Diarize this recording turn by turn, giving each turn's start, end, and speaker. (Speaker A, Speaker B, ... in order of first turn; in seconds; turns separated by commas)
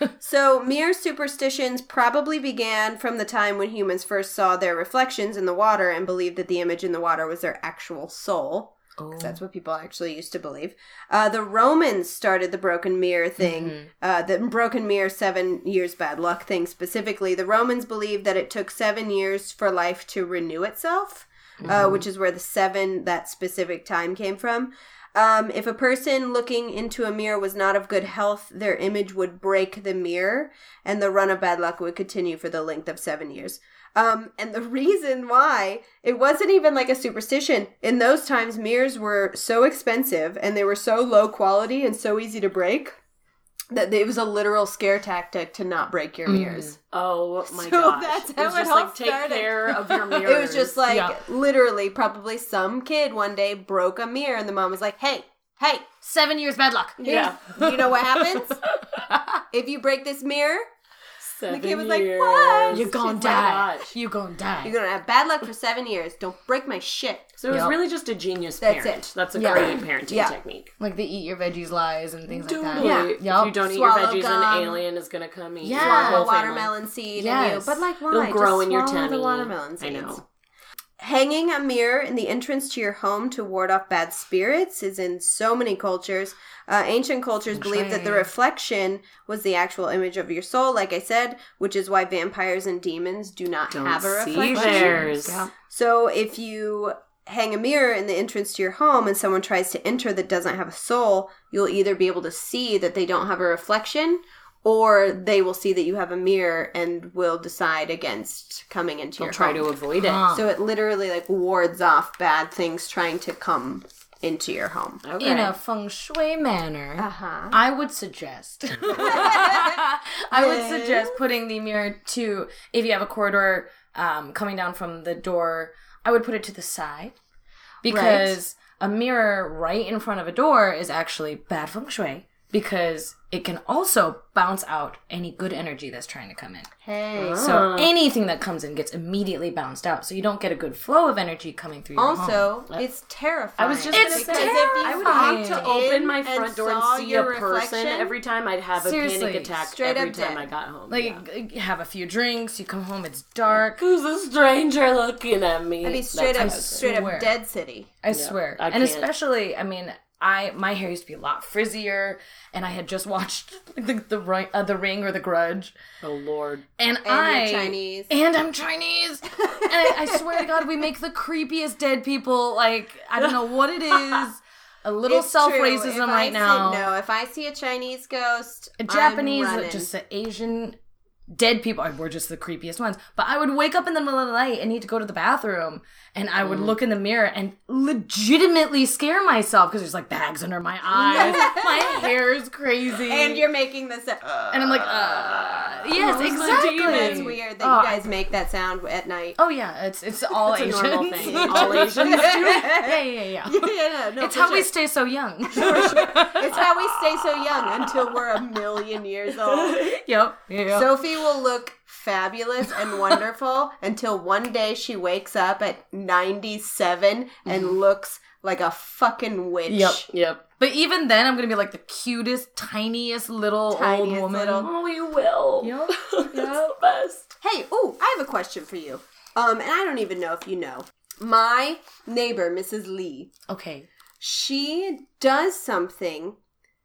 Speaker A: 0.2-43.0, Speaker B: 9.0-9.4, Speaker B: 13.4-13.9, Speaker B: 21.6-22.1, Speaker A: 43.7-46.8, Speaker B: 46.3-46.7, Speaker C: 46.7-50.8, Speaker A: 47.5-55.9, Speaker B: 50.9-51.2, Speaker B: 56.0-59.4, Speaker A: 57.0-58.6, Speaker C: 57.0-57.5, Speaker A: 59.5-60.7, Speaker C: 61.2-64.0, Speaker A: 61.5-63.4, Speaker B: 62.7-64.8, Speaker A: 64.6-67.3, Speaker C: 67.4-70.7, Speaker B: 67.5-67.8, Speaker A: 68.6-70.3, Speaker B: 69.3-69.8, Speaker B: 70.8-73.6, Speaker C: 72.3-76.8, Speaker A: 72.8-74.8, Speaker B: 75.6-76.3, Speaker A: 75.7-80.2, Speaker B: 77.2-77.9, Speaker C: 78.1-80.2, Speaker A: 81.0-109.7, Speaker B: 87.5-88.3, Speaker C: 93.7-95.4, Speaker B: 94.3-95.5, Speaker C: 109.2-110.2, Speaker B: 110.0-110.5, Speaker A: 110.3-115.0, Speaker C: 115.0-115.5, Speaker B: 115.2-127.2, Speaker A: 117.0-117.6, Speaker A: 118.9-119.8, Speaker A: 120.3-121.2, Speaker B: 127.8-136.7, Speaker A: 127.9-128.4, Speaker A: 136.8-137.7, Speaker C: 137.2-137.9, Speaker B: 137.4-142.5, Speaker A: 142.0-148.1, Speaker C: 143.6-151.2, Speaker B: 143.9-145.8, Speaker B: 148.8-149.6, Speaker A: 149.7-150.5, Speaker B: 150.9-153.8, Speaker C: 153.6-156.9, Speaker A: 155.8-157.9, Speaker B: 156.3-157.3, Speaker B: 158.0-165.8, Speaker C: 158.1-159.1, Speaker C: 166.0-166.7, Speaker B: 166.8-176.9, Speaker A: 167.1-168.1, Speaker A: 169.5-170.5, Speaker A: 175.1-179.9, Speaker B: 178.8-180.8, Speaker B: 181.3-193.5, Speaker C: 186.4-186.7, Speaker A: 190.9-192.1, Speaker A: 193.0-194.5, Speaker B: 194.5-198.1, Speaker C: 195.9-197.4, Speaker A: 196.0-199.4, Speaker B: 199.4-207.4, Speaker C: 200.4-202.6, Speaker A: 201.2-204.7, Speaker A: 205.5-209.8, Speaker B: 207.9-208.2, Speaker B: 209.8-211.0, Speaker A: 210.7-220.1, Speaker B: 217.5-217.8, Speaker B: 219.7-220.0, Speaker C: 220.1-220.4, Speaker B: 220.6-224.7, Speaker A: 223.7-224.7, Speaker C: 224.6-227.3, Speaker B: 225.6-226.7, Speaker A: 227.4-233.3, Speaker B: 233.5-233.9, Speaker A: 234.2-236.4